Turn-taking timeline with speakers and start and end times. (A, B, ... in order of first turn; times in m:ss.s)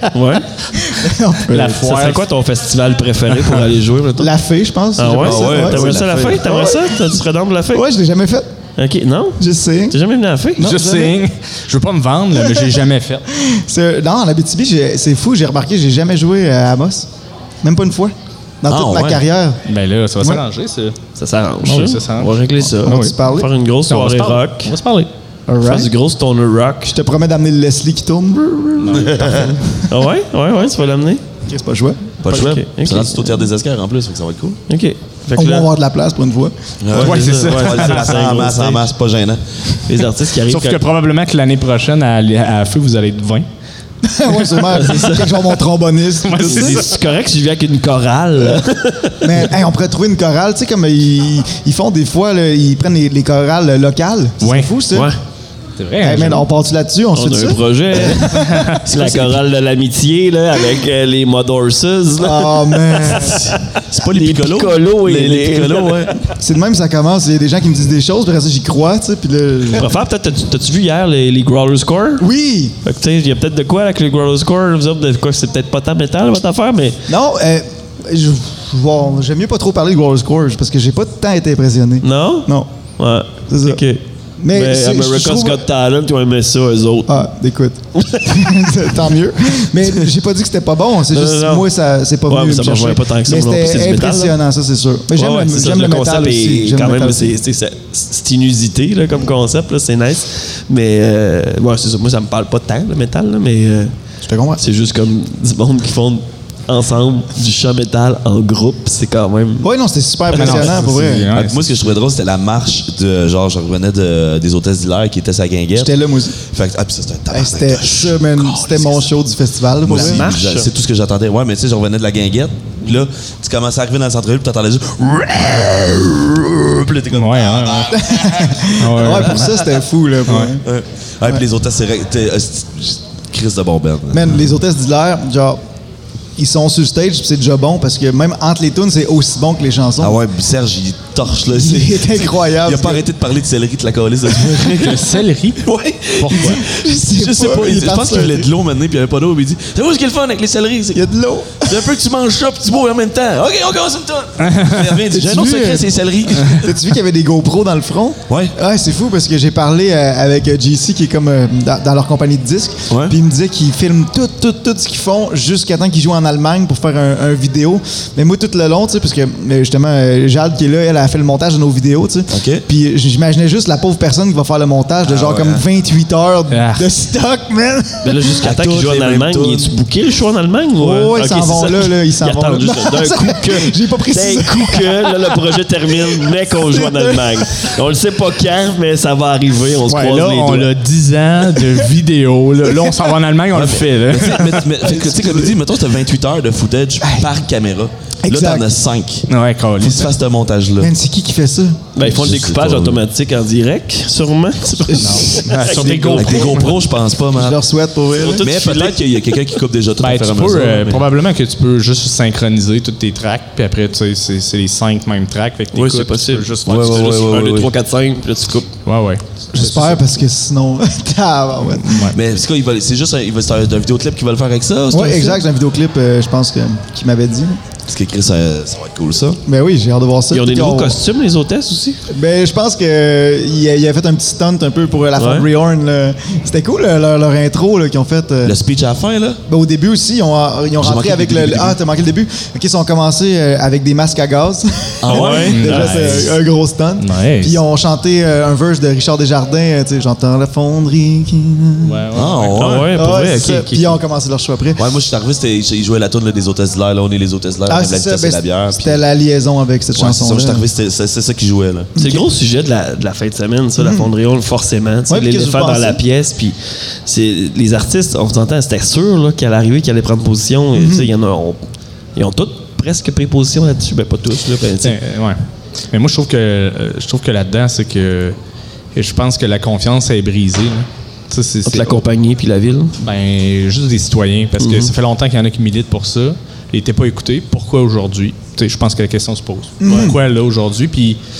0:00.1-0:00.5 A
0:00.7-0:01.8 B
0:01.4-0:02.2 C
0:01.5-0:04.3 A
0:04.2-0:07.2 B
0:05.0-0:07.8 A
0:05.0-0:06.4 D
0:07.7-0:08.5 B
0:08.8-0:10.7 A
0:09.4-0:10.0 B
0:10.6-0:11.2 B
0:10.6-0:13.3 C
0:12.4-0:12.8 B
0:13.3-0:17.1 B
0:17.6-0:19.6 B
0:18.7-0:19.2 D
0:19.6-0:21.0 C
0:21.2-0:24.7 A
0:21.6-0:23.2 C
0:22.7-0:23.5 B
0:23.9-0:25.1 C
0:25.5-0:25.9 B
0:25.6-0:26.9 A
0:26.9-0:29.9 B
0:28.8-0:29.4 C
0:28.9-0:29.6 D
0:29.8-0:31.2 A
0:31.4-0:32.1 B
0:32.2-0:34.6 D
0:32.3-0:33.4 A
0:34.7-0:35.7 A
0:35.4-0:36.5 B
0:36.8-0:39.4 D
0:36.9-0:38.2 C
0:36.9-0:38.9 A
0:39.8-0:40.8 A
0:40.5-0:43.5 C
0:44.0-0:46.8 B
0:44.6-0:45.4 A
0:46.2-0:47.0 C
0:46.4-0:49.4 A
0:49.2-0:55.1 B
0:54.4-0:54.7 C
0:54.9-0:55.2 A
0:55.8-0:56.4 C
0:56.0-0:58.8 B
0:57.1-1:06.2 A
0:58.3-0:59.1 C
0:58.9-0:59.3 D
1:02.2-1:03.5 B
1:03.2-1:06.2 D
1:06.3-1:09.9 B
1:09.7-1:12.2 A
1:12.2-1:12.8 B
1:12.8-1:17.1 A
1:17.1-1:22.7 B
1:22.0-1:27.3 A
1:23.5-1:23.8 B
1:24.4-1:25.6 B
1:27.1-1:37.4 B
1:27.9-1:28.6 A
1:31.1-1:31.7 A
1:32.3-1:34.4 A
1:35.1-1:43.9 A
1:44.2-1:44.6 B
1:44.6-1:49.7 A
1:49.6-1:51.3 B
1:50.3-1:51.7 C
1:50.3-1:50.6 A
1:51.3-1:59.1 D
1:55.7-1:56.4 B
1:57.3-2:00.3 B
1:59.8-2:08.0 D
1:59.9-2:00.7 A
2:07.1-2:08.0 C
2:07.9-2:10.6 B
2:08.7-2:09.6 C
2:10.3-2:10.5 C
2:10.6-2:14.4 D
2:14.1-2:15.6 B
2:16.4-2:20.2 B
2:20.0-2:31.0 D
2:21.3-2:23.1 B
2:24.6-2:25.6 C
2:26.2-2:26.6 C
2:26.3-2:28.5 B
2:30.9-2:31.9 B
2:31.6-2:36.8 D
2:34.4-2:34.8 C
2:35.1-2:35.9 B
2:36.4-2:58.4 B
2:38.3-2:38.5 D
2:42.9-2:43.2 D
2:52.3-2:52.6 D
2:55.0-2:55.6 D
2:56.5-2:56.8 C
2:58.0-3:10.7 A
2:58.4-2:59.7 D
3:00.8-3:07.4 B
3:09.9-3:14.8 C
3:13.5-3:19.3 D
3:14.8-3:15.6 B
3:17.0-3:17.3 B
3:18.2-3:18.7 B
3:19.3-3:20.1 C
3:19.8-3:20.9 D
3:20.8-3:21.9 B
3:21.9-3:26.7 A
3:22.0-3:23.0 D
3:24.8-3:25.4 B
3:24.9-3:26.8 C
3:26.1-3:27.6 D
3:27.3-3:28.4 B
3:28.2-3:29.3 A
3:28.3-3:31.0 D
3:30.0-3:37.4 C
3:35.7-3:38.7 A
3:36.6-3:37.7 D
3:38.8-3:40.0 C
3:39.5-3:42.1 B
3:41.7-3:42.2 C
3:42.1-3:45.4 D
3:44.9-3:47.6 B
3:47.9-3:49.4 D
3:49.4-3:51.0 B
3:50.3-3:52.0 A
3:52.1-3:58.6 B
3:55.2-3:55.5 A
3:58.4-3:59.4 D
3:59.5-4:12.1 B
4:00.8-4:01.8 D
4:05.0-4:05.6 D
4:05.1-4:06.3 A
4:05.5-4:06.4 C
4:07.0-4:07.6 C
4:11.8-4:12.8 C
4:12.1-4:12.9 D
4:12.6-4:14.0 A
4:12.9-4:14.8 B
4:14.8-4:19.0 D
4:17.6-4:20.7 B
4:19.9-4:21.9 D
4:22.0-4:22.2 B
4:22.0-4:31.6 A
4:23.8-4:24.1 B
4:25.1-4:26.0 B
4:30.7-4:31.1 B
4:32.2-4:35.0 A
4:34.8-4:35.4 C
4:35.9-4:38.4 C
4:38.9-4:42.0 C
4:41.6-4:43.0 A
4:43.0-4:51.2 C
4:44.6-4:44.9 A
4:49.8-4:50.2 B
4:49.8-4:50.1 A